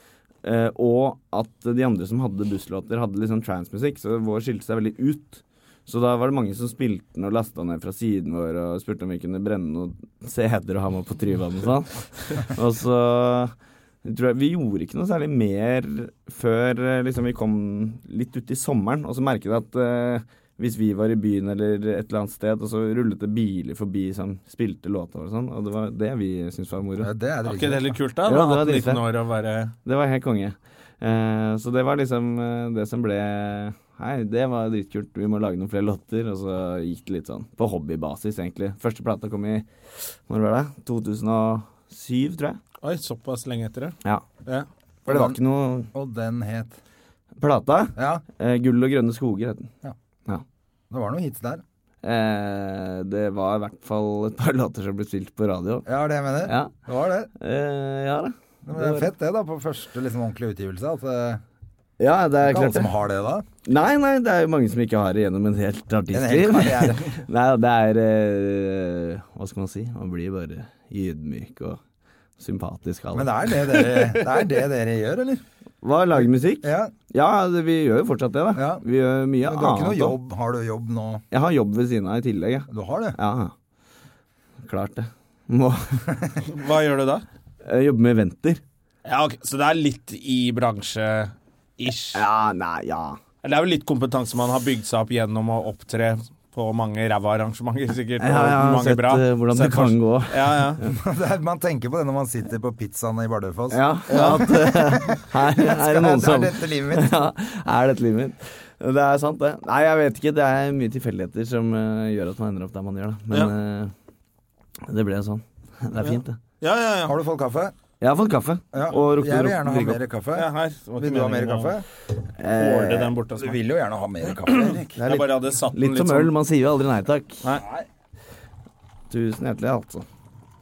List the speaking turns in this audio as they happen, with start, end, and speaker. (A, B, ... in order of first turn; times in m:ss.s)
0:00.4-0:27.1 A
0:27.0-0:28.0 B
0:27.4-0:29.8 C
0:28.3-0:29.0 A
0:29.8-0:42.6 A
0:42.8-0:44.7 C
0:45.1-0:45.4 B
0:45.1-0:45.9 A
0:45.9-0:46.8 B
0:47.4-0:49.7 A
0:48.0-0:48.2 B
0:50.9-0:51.6 B
0:52.0-0:55.9 A
0:55.9-0:57.3 B
0:56.4-0:56.8 A
0:57.4-0:59.1 A
0:58.6-1:01.4 B
1:02.0-1:02.9 A
1:02.4-1:03.5 B
1:03.7-1:11.8 A
1:06.1-1:07.2 B
1:12.4-1:14.4 A
1:13.1-1:15.4 B
1:15.8-1:20.2 A
1:16.6-1:16.9 B
1:18.6-1:18.8 B
1:19.4-1:21.2 B
1:21.3-1:23.5 A
1:22.7-1:23.2 B
1:24.6-1:26.2 A
1:26.4-1:27.2 C
1:27.6-1:28.6 A
1:29.1-1:32.2 C
1:32.1-1:33.2 A
1:33.4-1:40.8 C
1:38.2-1:40.9 A
1:40.8-1:47.1 B
1:43.7-1:53.9 A
1:44.1-1:44.4 C
1:54.9-1:56.4 A
1:56.0-1:57.2 C
1:57.0-1:57.7 B
1:58.0-2:00.0 A
1:58.7-2:01.8 B
2:00.4-2:01.8 C
2:02.4-2:03.1 A
2:02.6-2:03.6 C
2:03.4-2:05.0 B
2:04.5-2:06.3 C
2:05.0-2:07.5 A
2:09.1-2:10.1 A